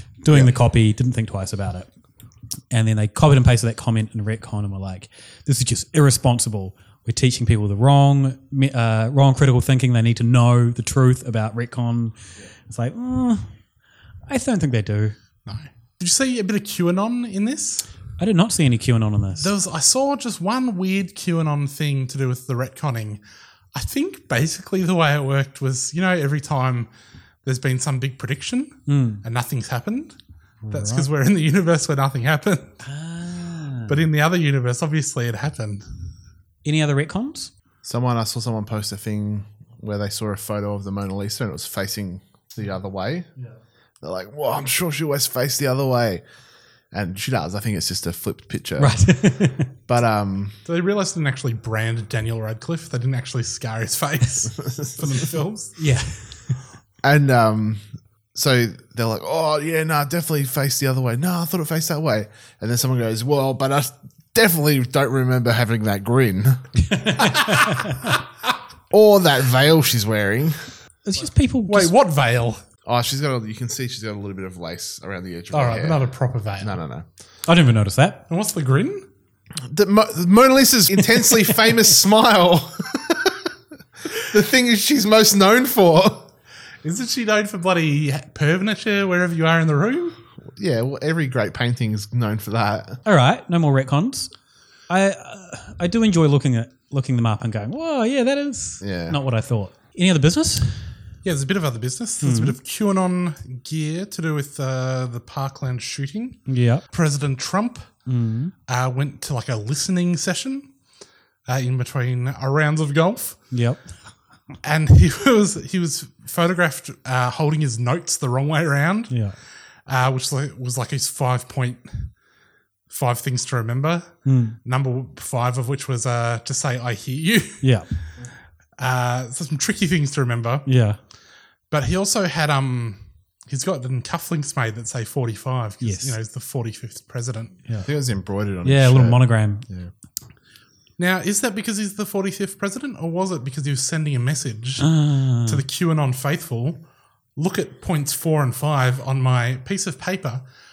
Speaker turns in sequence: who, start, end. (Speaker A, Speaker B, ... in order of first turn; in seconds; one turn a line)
Speaker A: 0.2-1.9
Speaker B: 0.3-0.5
Speaker A: 2.7-12.1
Speaker A: 12.7-13.5
Speaker A: 14.3-15.2
Speaker C: 15.4-17.9
Speaker A: 18.2-19.5
Speaker C: 19.4-23.2
Speaker C: 23.7-26.9
Speaker C: 27.4-30.1
Speaker A: 28.9-29.2
Speaker A: 30.7-31.1
Speaker C: 30.7-32.7
Speaker A: 32.8-34.0
Speaker C: 33.9-35.8
Speaker A: 36.6-37.5
Speaker B: 37.8-43.3
Speaker B: 44.0-46.2
Speaker B: 46.9-49.1
Speaker A: 48.8-49.7
Speaker B: 49.9-50.6
Speaker C: 50.6-55.8
Speaker B: 54.6-54.9
Speaker A: 55.8-56.6
Speaker B: 57.0-66.6
Speaker A: 66.8-68.2
Speaker B: 68.9-70.6
Speaker A: 71.0-71.9
Speaker C: 71.7-72.6
Speaker B: 72.8-77.0
Speaker C: 75.5-76.8
Speaker A: 77.5-78.2
Speaker C: 78.3-79.0
Speaker B: 79.7-83.5
Speaker B: 84.2-86.3
Speaker C: 86.8-90.2
Speaker B: 90.5-93.0
Speaker A: 93.0-94.3
Speaker A: 94.9-100.8
Speaker B: 98.8-99.2
Speaker C: 101.2-107.9
Speaker A: 102.2-102.5
Speaker A: 106.5-106.8
Speaker A: 108.0-108.5
Speaker C: 108.7-110.7
Speaker C: 111.5-113.4
Speaker A: 113.5-113.8
Speaker C: 114.6-119.2
Speaker A: 119.1-119.3
Speaker C: 119.9-122.1
Speaker C: 122.9-127.7
Speaker A: 124.2-124.6
Speaker A: 127.6-127.9
Speaker C: 128.8-130.7
Speaker A: 130.7-131.0
Speaker C: 131.7-137.6
Speaker A: 135.8-136.1
Speaker B: 137.8-139.9
Speaker A: 138.6-139.7
Speaker C: 141.0-146.8
Speaker A: 144.8-145.6
Speaker C: 147.3-150.4